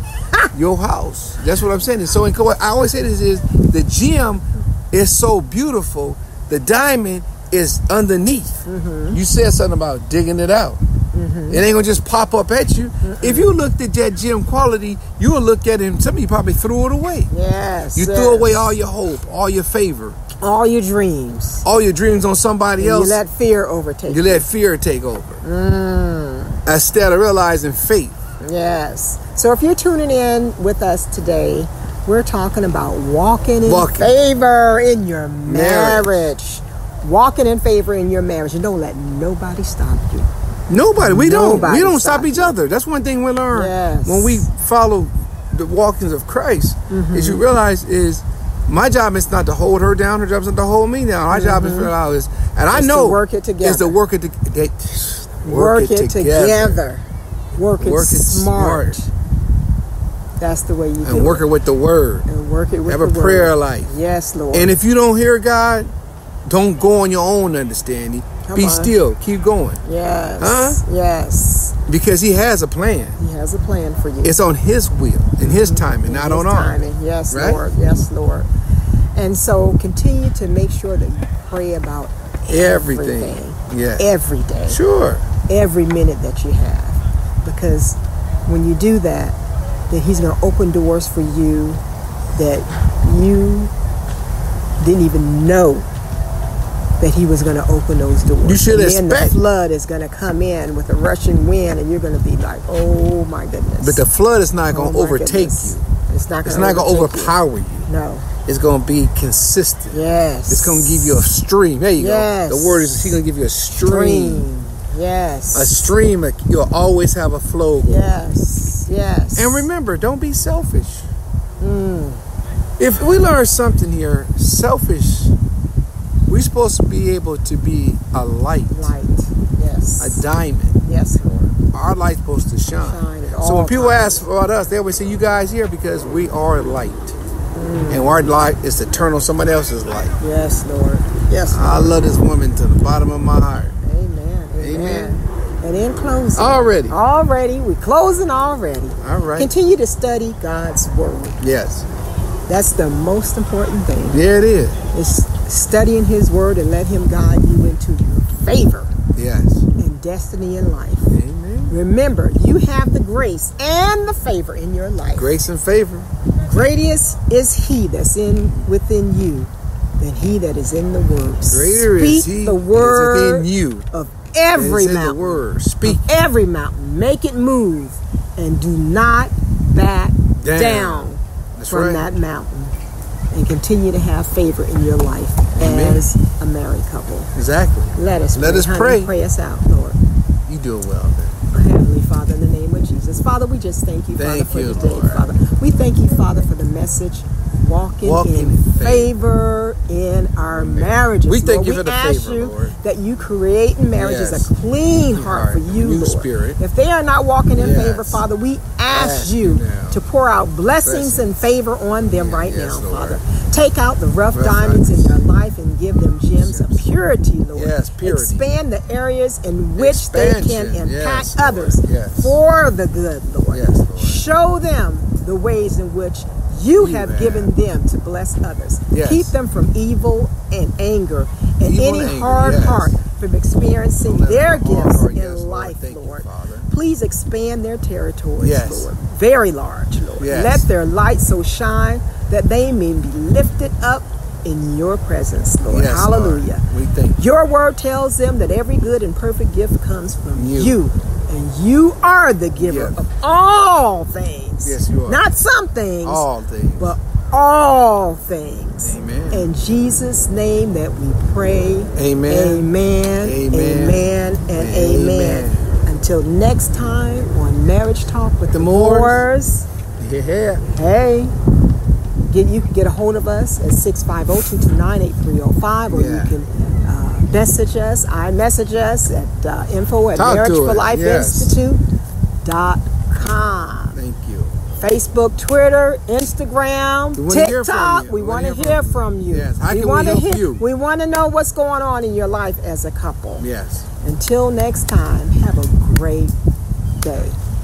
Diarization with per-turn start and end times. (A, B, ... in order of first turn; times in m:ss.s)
0:00.5-0:10.8 A
0:08.7-0:09.2 B
0:11.1-0:11.6 B
0:11.5-0:17.3 A
0:13.0-0:13.5 B
0:17.3-0:18.7 B
0:18.0-0:20.2 A
0:20.4-0:21.6 B
0:21.6-0:23.2 A
0:22.8-0:24.4 B
0:24.1-0:25.4 A
0:25.4-0:26.6 B
0:26.7-0:28.2 A
0:28.4-0:40.3 B
0:33.6-0:34.1 A
0:35.5-0:36.3 A
0:40.7-0:56.8 A
0:41.0-0:42.5 B
0:43.5-0:44.4 B
0:46.9-0:47.4 B
0:51.3-0:51.9 B
0:52.7-0:54.0 B
0:55.4-0:59.1 B
0:57.8-0:59.0 A
1:00.4-1:01.5 B
1:01.0-1:02.3 A
1:02.3-1:04.8 B
1:02.9-1:03.9 A
1:04.5-1:05.9 A
1:06.5-1:09.8 A
1:08.4-1:08.9 B
1:09.8-1:11.8 B
1:10.4-1:10.8 A
1:11.9-1:13.2 A
1:13.2-1:14.4 B
1:14.2-1:17.6 A
1:15.4-1:18.5 B
1:19.2-1:24.8 B
1:22.5-1:24.0 A
1:24.7-1:25.2 A
1:25.5-1:29.4 B
1:29.9-1:31.8 B
1:32.4-1:33.7 B
1:34.8-1:35.9 B
1:37.0-1:44.0 B
1:38.4-1:39.4 A
1:43.8-1:45.8 A
1:44.7-1:47.4 B
1:46.4-1:47.9 A
1:47.9-1:48.3 B
1:48.5-1:50.0 A
1:49.9-1:51.3 B
1:50.5-1:54.5 A
1:52.0-1:53.2 B
1:53.8-1:55.9 B
1:55.5-1:58.1 A
1:57.8-1:59.7 B
1:59.4-2:01.1 A
2:01.6-2:02.2 B
2:02.8-2:05.3 A
2:06.3-2:08.9 A
2:08.7-2:10.2 B
2:10.0-2:10.8 A
2:10.8-2:11.6 B
2:11.7-2:17.2 A
2:12.8-2:14.2 B
2:17.6-2:18.2 B
2:17.9-2:20.2 A
2:20.2-2:22.0 B
2:21.5-2:23.8 A
2:23.8-2:31.4 B
2:24.6-2:25.2 A
2:26.4-2:27.0 A
2:29.0-2:29.5 A
2:31.4-2:31.9 A
2:32.5-2:34.2 B
2:34.1-2:34.8 A
2:34.9-2:38.9 B
2:39.2-2:39.7 A
2:39.8-2:41.1 B
2:41.1-2:41.8 A
2:41.7-2:45.4 B
2:45.2-2:46.1 A
2:46.4-3:02.8 B
2:51.5-2:53.9 A
2:54.6-2:56.0 A
3:00.4-3:02.1 A
3:03.3-3:07.3 B
3:05.6-3:06.0 A
3:07.4-3:09.1 A
3:08.0-3:10.0 B
3:10.5-3:11.4 A
3:11.5-4:06.6 B
3:14.2-3:15.3 A
3:18.0-3:19.1 A
3:20.5-3:22.7 A
3:23.9-3:24.5 A
3:25.1-3:26.6 A
3:27.6-3:28.2 A
3:28.9-3:30.0 A
3:30.8-3:31.3 A
3:32.0-3:33.2 A
3:34.3-3:35.2 A
3:36.4-3:36.8 A
3:37.5-3:38.5 A
3:39.8-3:42.4 A
3:43.5-3:44.2 A
3:46.8-3:47.5 A
3:48.9-3:49.3 A
3:51.6-3:53.0 A
3:54.0-3:56.7 A
3:58.4-3:58.9 A
4:00.2-4:00.7 A
4:05.7-4:07.2 A
4:07.2-4:16.3 B
4:10.4-4:10.8 A
4:12.6-4:13.0 A
4:14.6-4:15.2 A
4:16.0-4:17.0 A
4:16.8-4:29.7 B
4:18.8-4:19.5 A
4:22.0-4:22.7 A
4:23.2-4:25.7 A
4:28.5-4:29.2 A
4:30.0-4:30.6 A
4:30.7-4:31.3 B
4:32.3-4:41.8 B
4:35.9-4:36.4 A
4:40.2-4:41.6 A
4:42.4-4:44.0 B
4:43.9-4:44.6 A
4:44.8-4:53.5 B
4:47.2-4:50.6 A
4:53.4-4:53.9 A
4:54.0-4:56.3 B
4:57.0-4:57.4 B